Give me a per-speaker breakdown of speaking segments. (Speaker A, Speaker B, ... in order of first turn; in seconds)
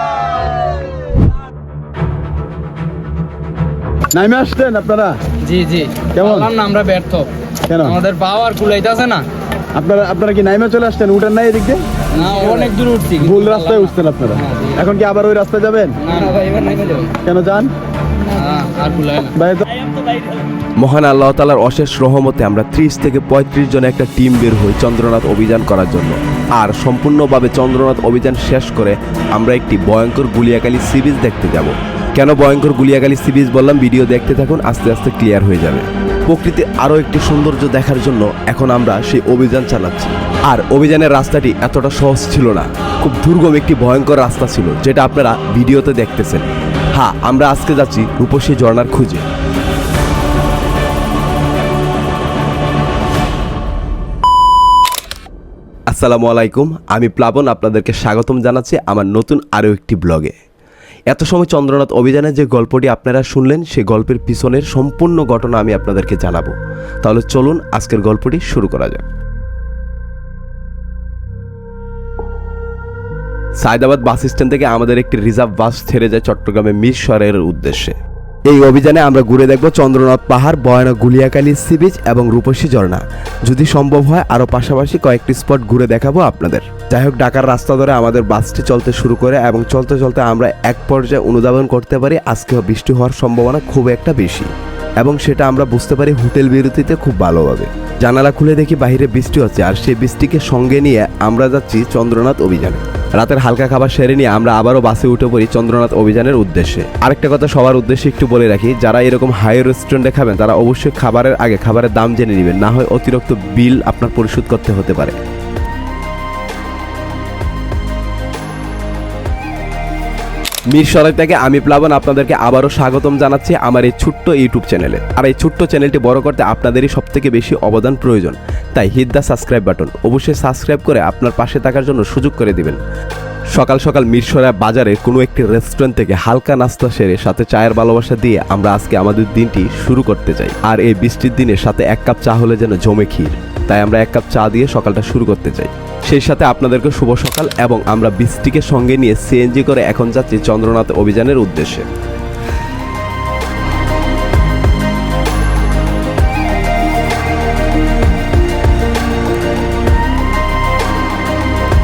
Speaker A: 4.1-5.2, 6.2-6.4, 7.7-7.9, 9.7-11.8, 13.2-16.0, 17.2-17.7, 19.4-19.7
Speaker B: 5.4-9.3, 12.1-14.9, 16.0-17.1, 18.3-19.3, 19.9-20.2
Speaker C: 20.8-49.3, 55.9-60.4, 61.1-69.0, 73.6-115.2, 120.7-132.8, 133.5-151.9